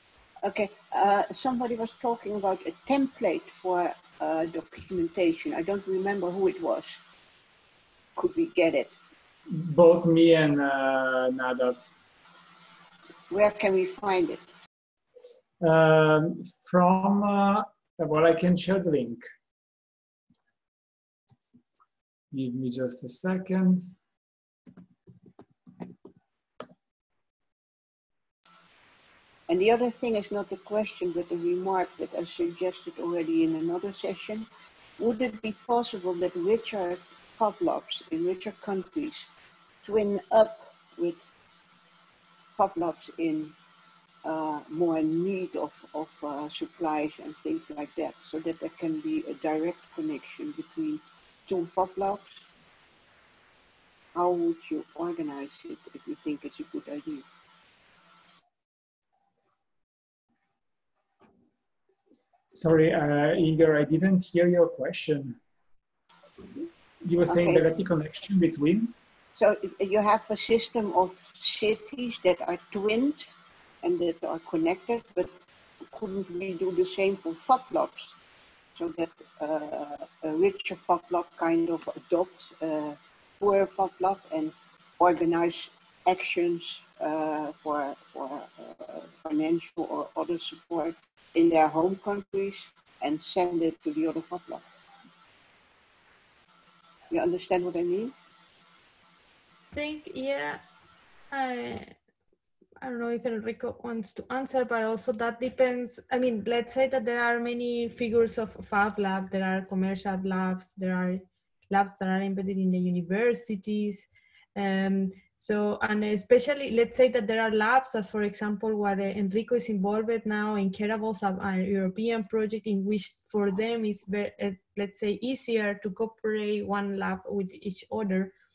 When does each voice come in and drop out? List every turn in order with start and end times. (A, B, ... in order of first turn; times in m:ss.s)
0:00.4-0:07.0 A
0:08.2-0:08.9 A
0:09.5-0:11.8 B
0:13.3-0:14.5 A
0:15.6-0:19.2 B
0:22.3-0:23.9 B
0:29.5-0:34.5 A
0:35.0-0:39.3 A
0:39.8-0:41.2 A
0:42.6-0:43.6 A
0:44.2-0:52.4 A
0:54.2-0:57.2 A
1:02.5-1:05.4 B
1:07.0-1:08.9 B
1:07.3-1:07.6 A
1:09.3-1:13.3 A
1:13.8-1:15.3 A
1:15.9-1:18.2 A
1:18.8-1:34.6 A
1:37.1-1:38.1 A
1:39.7-1:40.6 C
1:41.3-1:41.9 C
1:42.8-2:08.3 C